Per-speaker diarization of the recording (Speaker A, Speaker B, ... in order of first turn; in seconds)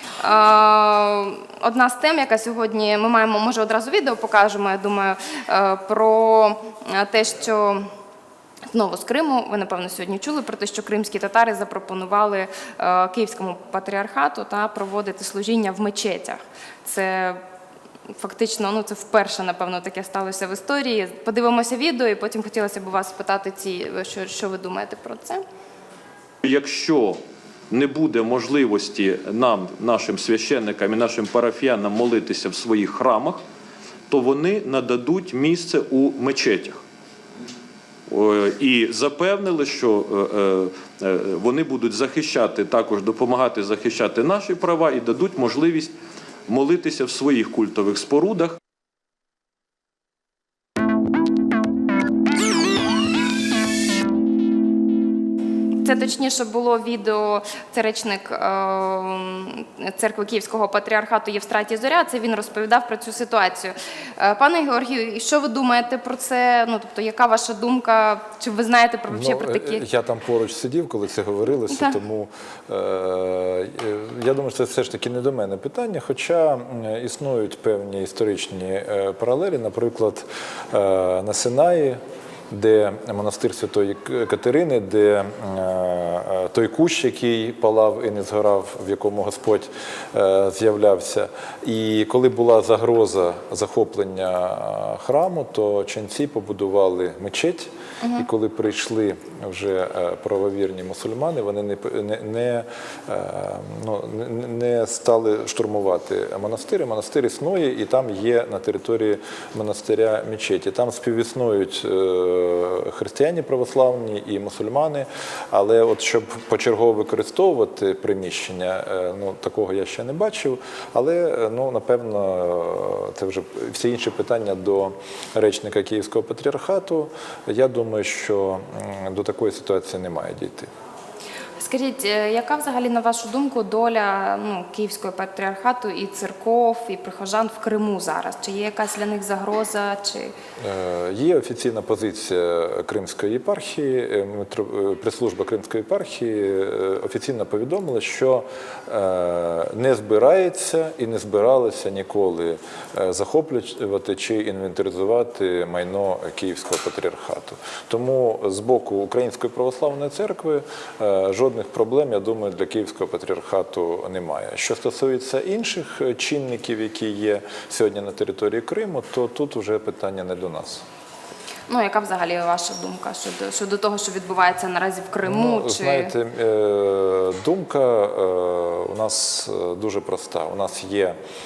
Speaker A: 0.2-7.9, 8.7-17.4, 18.1-25.4, 55.8-69.8, 71.7-72.0, 98.0-98.3, 131.6-140.3, 171.7-176.1
Speaker B: 26.4-33.4, 34.1-36.8, 38.1-45.9, 46.5-48.6
Speaker C: 69.1-82.0, 82.5-130.7, 140.6-170.8, 175.2-181.2